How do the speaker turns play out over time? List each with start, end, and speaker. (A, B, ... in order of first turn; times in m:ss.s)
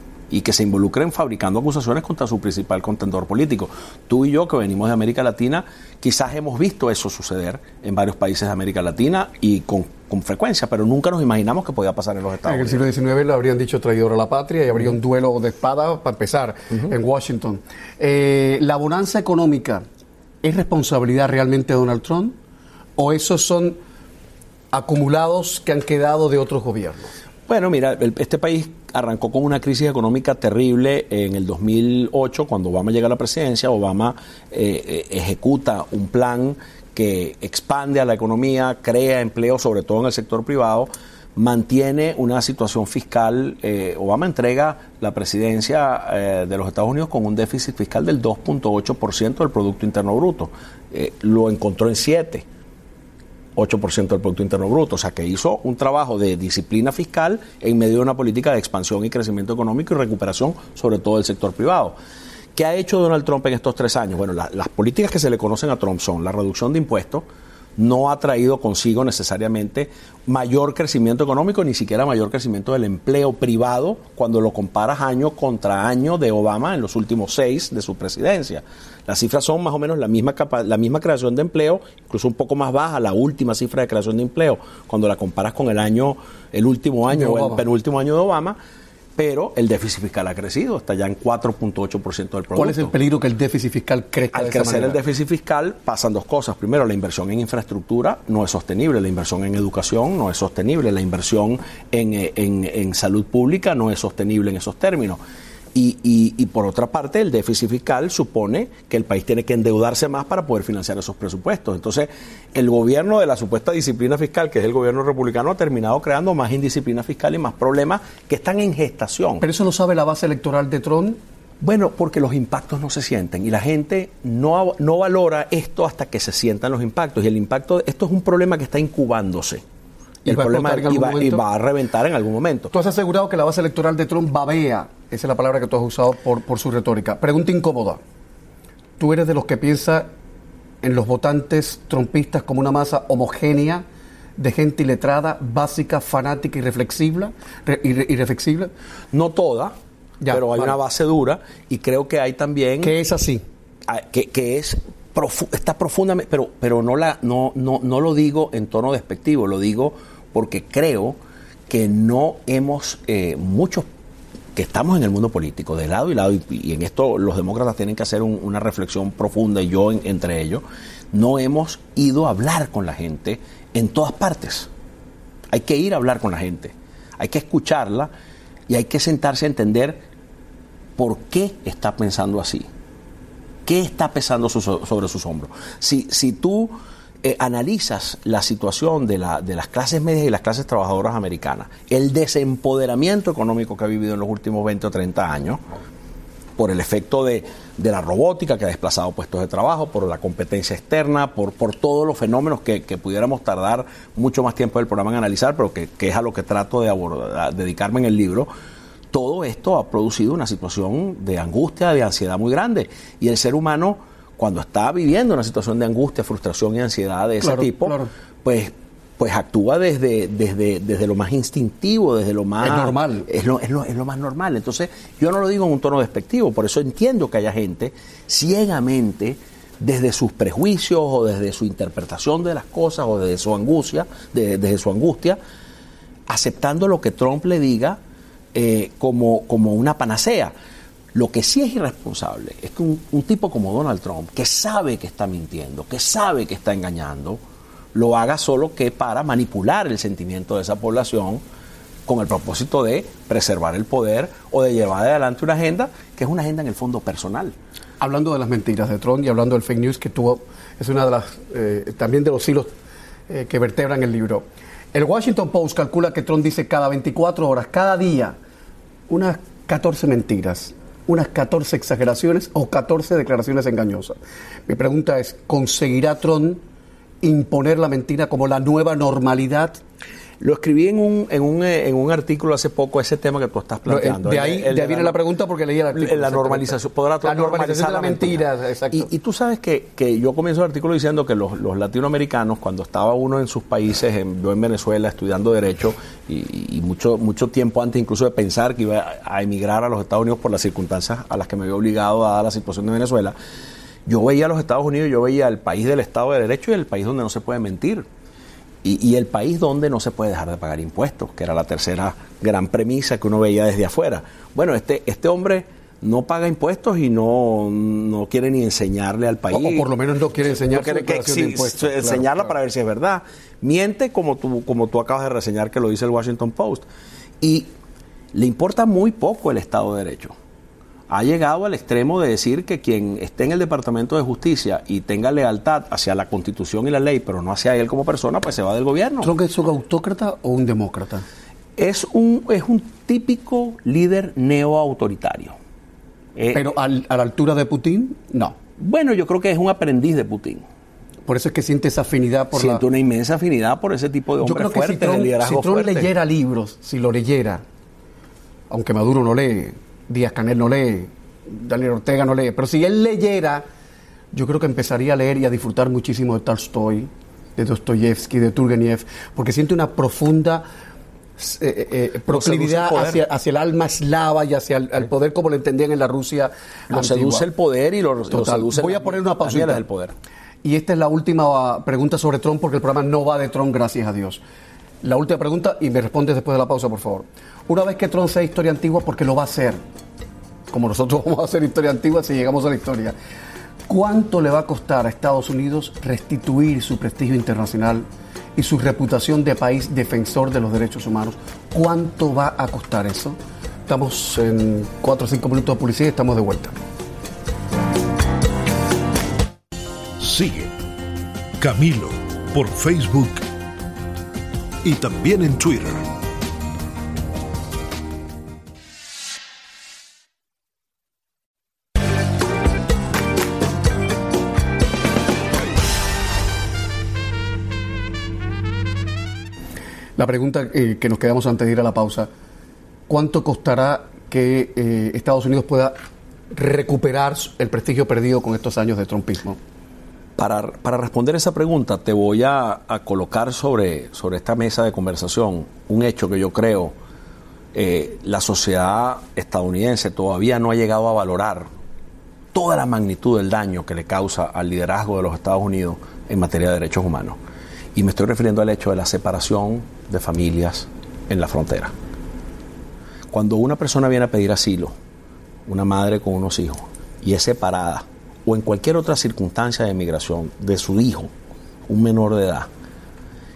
0:00.3-0:12.8 A
0:12.4-0:19.8 B
0:20.4-0:22.4 B
0:23.0-0:23.8 B
0:24.7-0:27.1 B
0:27.5-0:52.4 A
0:53.6-1:02.0 A
1:02.6-1:07.2 A
1:07.8-1:28.6 A
1:27.1-1:27.6 B
1:29.2-1:32.9 A
1:32.5-1:35.0 B
1:34.3-1:45.2 A
1:45.7-1:59.4 A
1:59.4-2:01.2 B
2:01.6-2:09.6 A
2:10.2-2:12.7 A
2:10.3-2:11.4 B
2:12.7-2:18.0 B
2:19.0-2:20.1 B
2:20.8-2:23.8 B
2:24.4-2:28.7 B
2:29.1-2:29.8 A
2:30.2-2:30.8 B
2:30.3-2:33.0 A
2:32.8-2:33.4 B
2:33.9-2:41.2 A
2:41.7-2:43.9 A
2:44.6-2:54.7 A
2:55.5-2:58.1 A
2:58.7-3:00.0 A
3:01.0-3:02.7 A
3:03.7-3:15.6 A
3:16.6-3:28.5 A
3:29.1-3:55.4 A
3:37.4-3:38.1 B
3:42.6-3:43.3 B
3:56.3-3:58.0 A
3:58.5-4:00.5 A
4:01.1-4:07.4 A
4:07.9-4:11.4 A
4:12.1-4:17.5 A
4:18.0-4:22.7 B
4:23.3-4:28.4 B
4:29.1-4:36.6 B
4:37.2-4:39.8 B
4:40.4-4:45.2 A
4:43.9-4:49.1 B
4:45.9-5:03.4 A
5:04.1-5:08.1 A
5:08.8-5:19.9 A
5:19.5-5:22.5 B
5:20.4-5:26.9 A
5:27.4-5:27.7 A
5:28.3-5:30.3 A
5:31.1-5:39.3 A
5:39.2-5:41.2 B
5:41.8-5:45.6 A
5:46.4-5:46.6 A
5:46.5-5:48.6 B
5:48.8-5:50.6 A
5:51.3-5:52.8 B
5:52.5-5:56.1 A
5:54.4-5:57.6 B
5:58.7-6:03.6 B
6:04.3-6:10.7 B
6:11.4-6:17.5 B
6:12.3-6:13.2 A
6:16.9-6:20.1 A
6:18.3-6:19.8 B
6:20.6-6:24.4 B
6:25.0-6:29.8 B
6:30.7-6:33.2 B
6:33.9-6:38.0 B
6:38.6-6:46.8 B
6:50.2-6:50.7 C
6:51.6-6:53.5 C
6:54.8-6:56.1 C
7:10.2-7:12.3 B
7:13.1-7:16.0 B
7:16.5-7:19.6 B
7:20.4-7:26.9 A
7:27.7-7:31.7 A
7:32.5-7:37.4 A
7:38.0-7:41.9 A
7:43.3-7:44.9 A
7:45.7-7:51.3 A
7:51.9-7:52.7 A